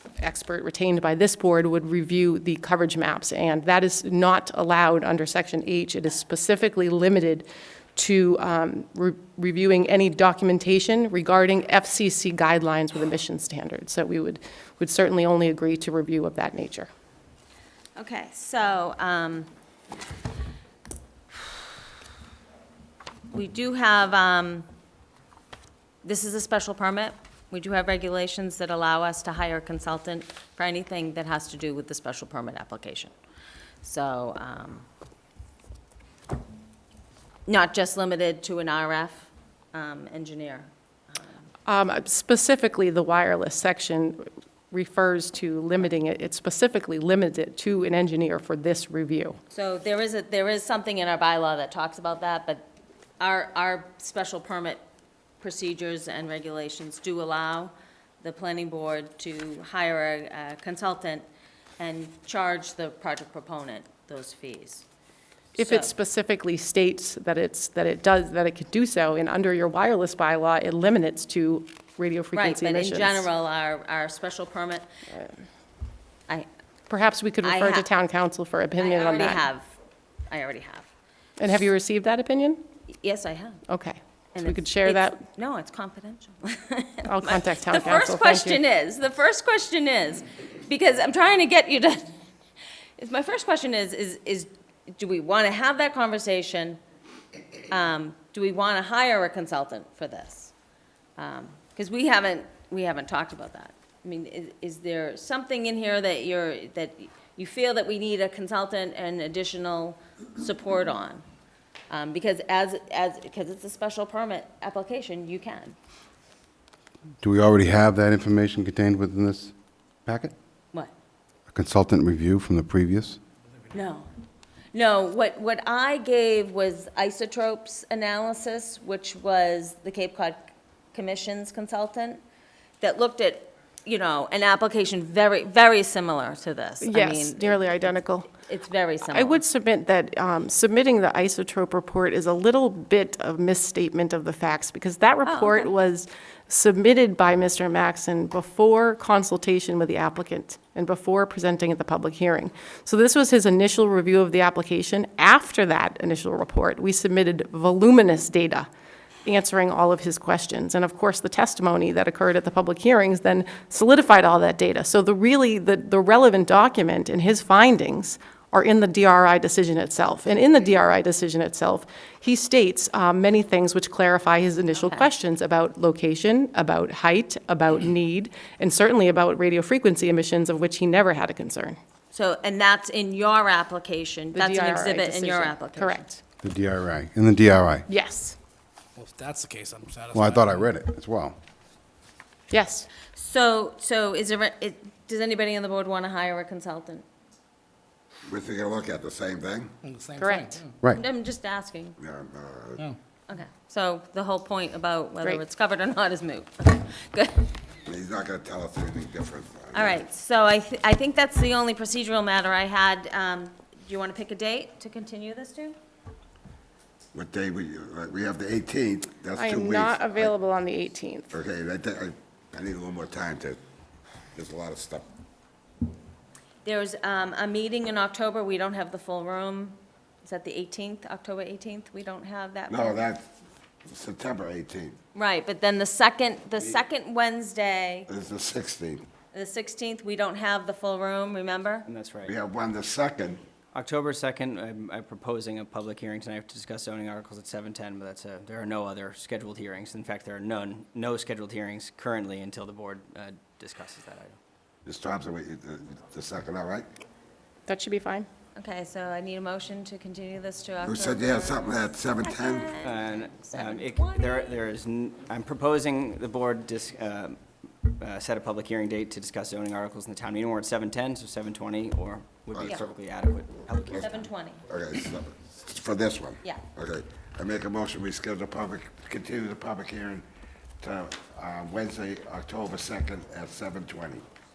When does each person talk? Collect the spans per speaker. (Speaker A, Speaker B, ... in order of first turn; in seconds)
Speaker A: 0.2-16.9, 41.7-49.4, 65.6-73.3, 76.9-79.4, 81.4-82.6, 83.7-85.2, 87.0-88.6, 136.8-138.3, 139.1-158.7, 159.2-181.8, 184.3-186.2, 187.9-188.4, 192.5-192.9, 200.2-200.6, 219.3-221.3, 257.7-258.3
Speaker B: 18.0-19.5, 23.3-24.7, 26.0-33.1, 33.8-34.9, 37.5-41.3, 49.5-52.7, 53.2-54.8, 55.4-61.2, 61.8-64.8, 65.6-65.9, 72.3-74.9, 77.4-77.9, 78.8-79.7, 80.3-80.9, 83.0-83.6, 84.3-92.1, 93.0-96.8, 97.7-100.5, 101.2-111.2, 111.9-115.8, 123.7-124.1, 124.7-132.2, 132.8-139.4, 145.2-145.7, 174.7-175.1, 182.1-186.1, 193.1-197.0, 200.9-202.0, 203.3-207.5, 209.7-215.8, 226.7-233.0, 235.2-238.1, 239.3-241.9, 258.6-264.6, 274.0-274.6
Speaker C: 117.2-119.5, 120.1-120.3, 121.5-123.2, 186.4-187.8, 190.1-191.3
Speaker D: 189.0-190.6, 199.8-200.8
Speaker E: 198.3-199.7, 202.0-202.8, 207.8-210.0, 217.1-220.3, 221.3-223.6, 224.3-225.1, 232.7-233.2, 233.8-235.0, 238.1-239.0, 242.2-243.4, 254.8-256.9, 260.8-262.7, 272.5-272.8, 274.7-280.2, 280.8-284.2
Speaker F: 241.9-242.3, 243.7-254.4, 262.8-274.3